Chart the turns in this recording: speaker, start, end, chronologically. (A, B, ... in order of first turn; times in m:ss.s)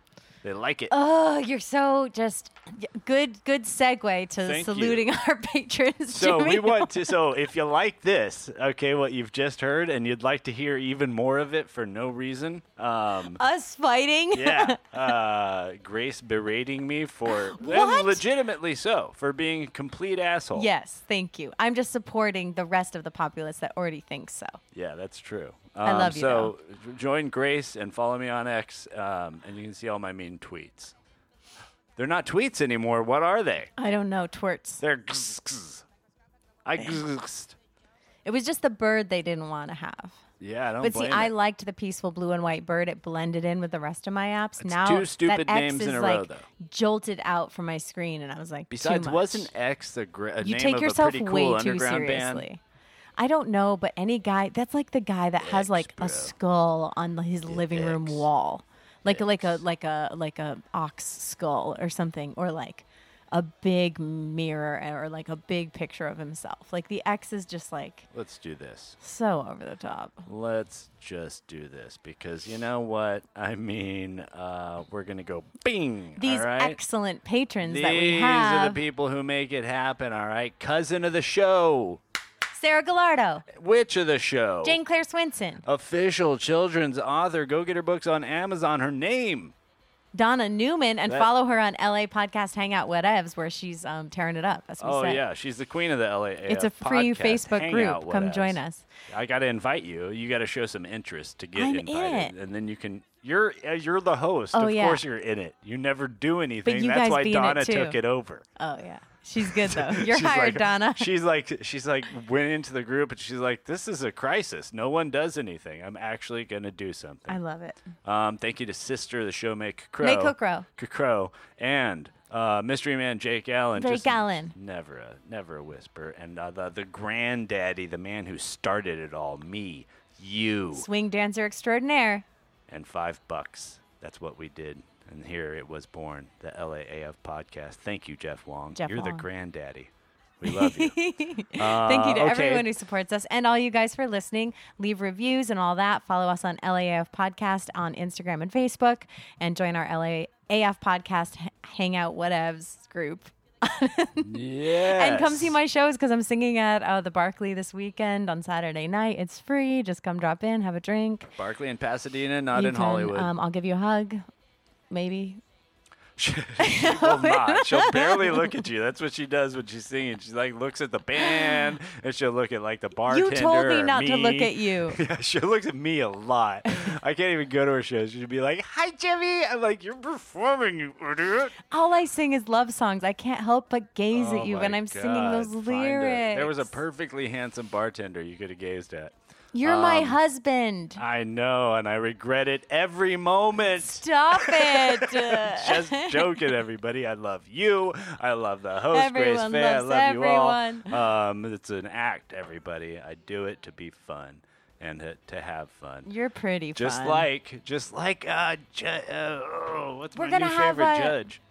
0:00.4-0:00.9 A
0:00.9-0:07.0 B
0:04.4-0:05.1 A
0:06.1-0:13.4 A
0:13.4-0:14.9 B
0:14.3-0:20.7 A
0:17.3-0:18.2 B
0:20.5-0:24.6 B
0:24.7-0:30.9 A
0:25.8-0:26.5 B
0:32.0-0:33.7 A
0:33.8-0:34.8 B
0:34.8-0:35.8 A
0:36.6-0:37.6 A
0:38.2-0:40.2 B
0:40.4-0:41.3 A
0:40.8-0:49.5 B
0:44.6-0:46.4 A
0:48.7-0:52.4 A
0:50.4-0:52.6 B
0:53.2-1:08.1 B
0:55.4-0:56.3 A
0:57.5-0:58.3 A
0:59.0-0:59.6 A
1:08.1-1:09.0 A
1:09.0-1:10.2 B
1:10.2-1:16.8 A
1:16.2-1:18.8 B
1:17.6-1:22.0 A
1:22.5-1:23.4 B
1:23.5-1:24.8 A
1:24.6-1:25.6 B
1:25.6-1:29.5 A
1:30.1-1:35.2 B
1:34.8-1:48.4 A
1:36.5-1:38.9 B
1:41.6-1:42.3 B
1:44.5-1:45.0 B
1:46.6-1:48.0 B
1:48.6-1:51.1 B
1:49.4-1:57.4 A
1:57.3-1:57.8 B
1:58.0-2:10.9 A
2:00.0-2:00.6 B
2:03.8-2:04.6 B
2:10.7-2:12.2 B
2:12.7-2:21.0 A
2:18.8-2:19.2 B
2:20.5-2:34.3 B
2:21.5-2:22.7 A
2:34.2-2:35.6 A
2:34.9-2:41.3 B
2:41.4-2:43.3 A
2:42.5-2:44.2 B
2:44.9-2:45.4 B
2:46.2-3:01.5 A
2:46.6-2:48.6 B
2:51.2-2:51.7 B
2:53.1-2:55.0 B
2:56.7-2:56.9 B
3:01.7-3:06.7 B
3:04.1-3:10.2 A
3:09.5-3:11.0 B
3:11.0-3:26.1 A
3:13.7-3:16.4 B
3:18.9-3:21.0 B
3:26.0-3:27.3 B
3:26.8-3:31.4 A
3:30.1-3:31.2 B